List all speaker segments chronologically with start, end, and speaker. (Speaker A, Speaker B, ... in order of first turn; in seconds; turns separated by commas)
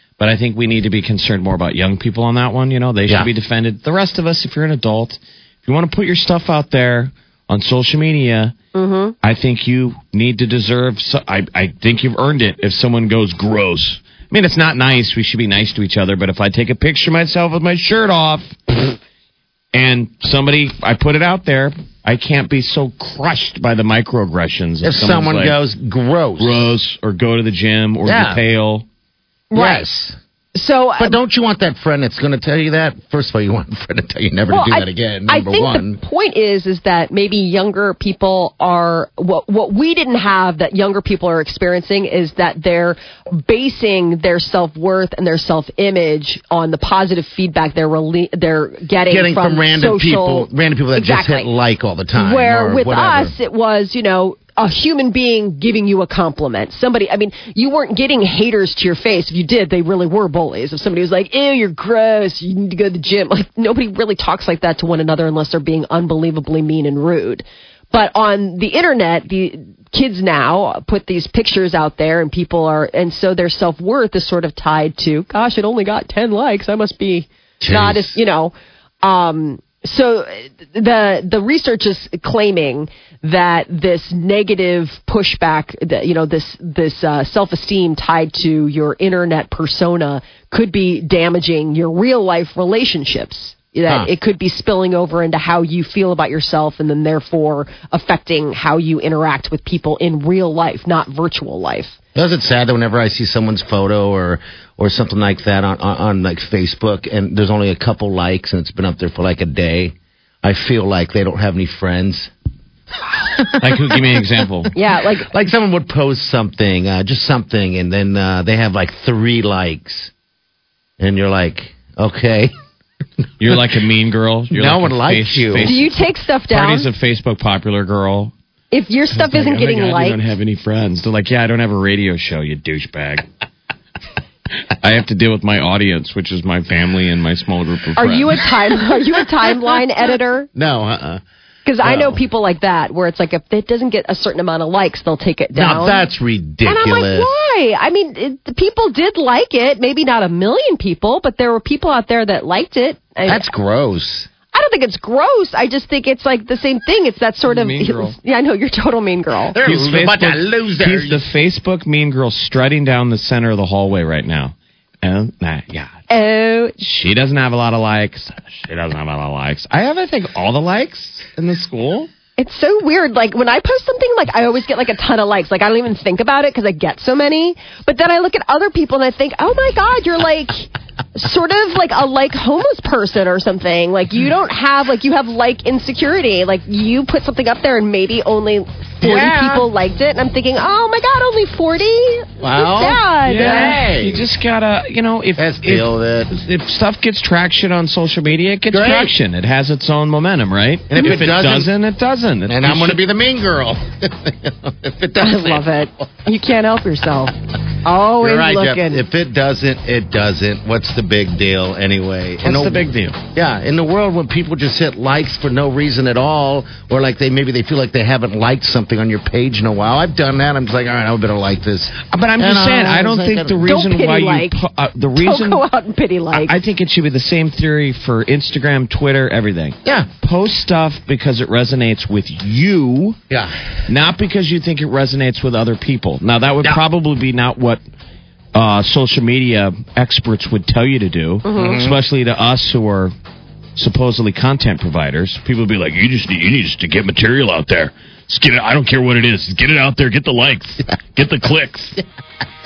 Speaker A: 0.2-8.5, Speaker B: 8.7-9.1, Speaker A: 9.2-18.6, Speaker A: 19.7-25.6, Speaker C: 24.8-26.7, Speaker A: 26.4-28.9, Speaker C: 28.0-28.4, Speaker B: 29.5-29.9, Speaker C: 29.5-30.2, Speaker B: 30.6-31.2, Speaker C: 31.0-36.0, Speaker B: 34.5-51.5, Speaker C: 49.1-53.3, Speaker B: 52.1-102.0, Speaker C: 77.6-78.2, Speaker C: 102.1-112.3, Speaker C: 113.4-114.2, Speaker A: 113.6-114.7, Speaker B: 114.7-115.3, Speaker C: 115.3-120.1, Speaker C: 121.0-122.5, Speaker A: 123.4-128.3, Speaker C: 124.5-125.8, Speaker B: 125.6-126.9, Speaker B: 128.7-130.2, Speaker A: 129.1-133.2, Speaker A: 134.8-138.4, Speaker B: 138.0-140.5, Speaker C: 140.6-141.2, Speaker B: 141.7-146.0, Speaker C: 141.8-142.1, Speaker C: 145.6-147.4, Speaker B: 146.6-153.5, Speaker C: 153.2-154.3, Speaker B: 154.5-159.6, Speaker A: 157.4-158.2, Speaker C: 159.5-161.2, Speaker A: 159.6-165.9, Speaker B: 166.1-166.8, Speaker A: 166.8-172.1, Speaker B: 172.4-193.7, Speaker C: 189.0-189.7, Speaker C: 192.4-194.3, Speaker A: 193.2-203.0, Speaker C: 195.4-196.3, Speaker C: 198.7-199.1, Speaker C: 200.9-201.7, Speaker C: 202.5-205.7, Speaker B: 205.2-207.3, Speaker B: 207.8-209.0, Speaker C: 208.2-223.7, Speaker A: 212.4-213.2, Speaker A: 222.1-225.6, Speaker B: 223.6-224.6, Speaker B: 225.2-226.6, Speaker A: 226.3-233.2, Speaker C: 229.8-230.1, Speaker C: 233.3-233.6, Speaker A: 233.9-237.8, Speaker A: 238.6-243.1, Speaker B: 241.5-241.8, Speaker C: 241.5-242.0, Speaker A: 243.8-252.0